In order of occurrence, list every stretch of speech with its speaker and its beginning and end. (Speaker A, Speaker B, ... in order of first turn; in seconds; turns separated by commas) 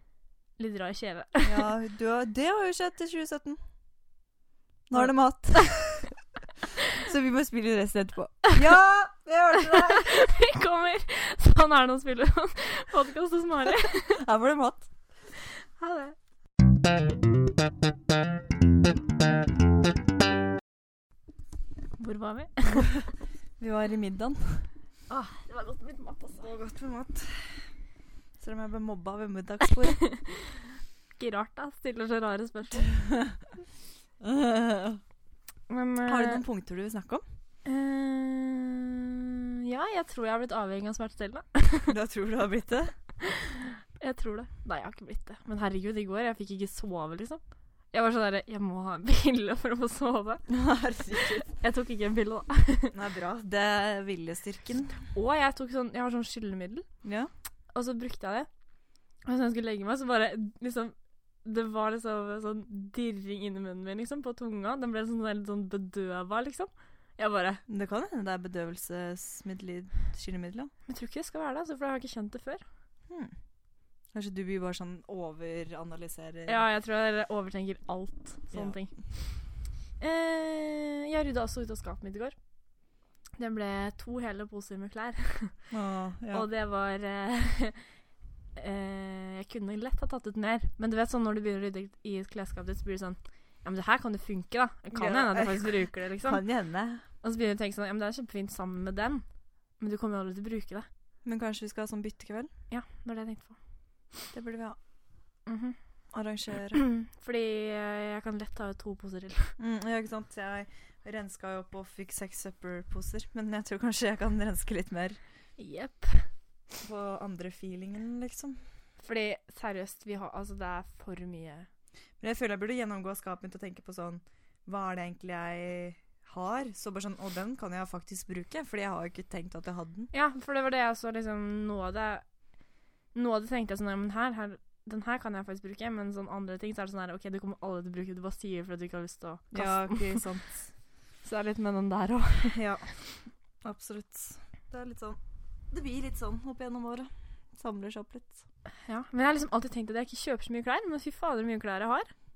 Speaker A: 0.6-1.7, Speaker B: 1.4-3.6, Speaker B: 4.9-6.0, Speaker B: 7.0-10.2, Speaker A: 9.9-14.2, Speaker B: 14.1-14.9, Speaker A: 15.5-16.1, Speaker A: 22.0-22.9, Speaker B: 23.6-24.7, Speaker A: 25.1-26.5, Speaker B: 26.4-27.8, Speaker B: 28.4-30.2, Speaker A: 31.2-32.9, Speaker B: 33.0-33.3, Speaker B: 34.2-35.0, Speaker A: 35.7-36.4, Speaker B: 36.0-37.2, Speaker A: 37.6-39.0, Speaker A: 39.6-41.9, Speaker B: 41.9-43.0, Speaker A: 43.6-50.4, Speaker B: 50.5-51.5, Speaker A: 51.5-52.9, Speaker B: 52.9-55.1, Speaker A: 55.1-56.9, Speaker B: 57.0-57.3, Speaker A: 57.7-58.5, Speaker A: 59.2-67.6, Speaker B: 67.7-70.7, Speaker A: 70.8-72.6, Speaker B: 73.1-73.3, Speaker B: 74.1-76.6, Speaker A: 76.5-82.4, Speaker B: 78.5-78.8, Speaker A: 83.4-85.7, Speaker B: 85.7-86.5, Speaker A: 86.3-88.0, Speaker A: 88.5-96.6, Speaker B: 94.9-97.0, Speaker A: 97.2-100.9, Speaker B: 101.2-102.5, Speaker A: 102.7-103.6, Speaker B: 104.3-104.8, Speaker A: 105.5-105.8, Speaker B: 106.1-106.8, Speaker A: 106.7-109.5, Speaker B: 109.6-115.2, Speaker A: 115.6-116.3, Speaker B: 116.8-118.6, Speaker A: 119.0-121.7, Speaker B: 122.2-130.1, Speaker A: 130.1-132.3, Speaker A: 133.1-140.3, Speaker B: 139.5-140.7, Speaker A: 141.2-142.6, Speaker B: 142.4-145.2, Speaker B: 145.7-148.4, Speaker A: 148.8-152.1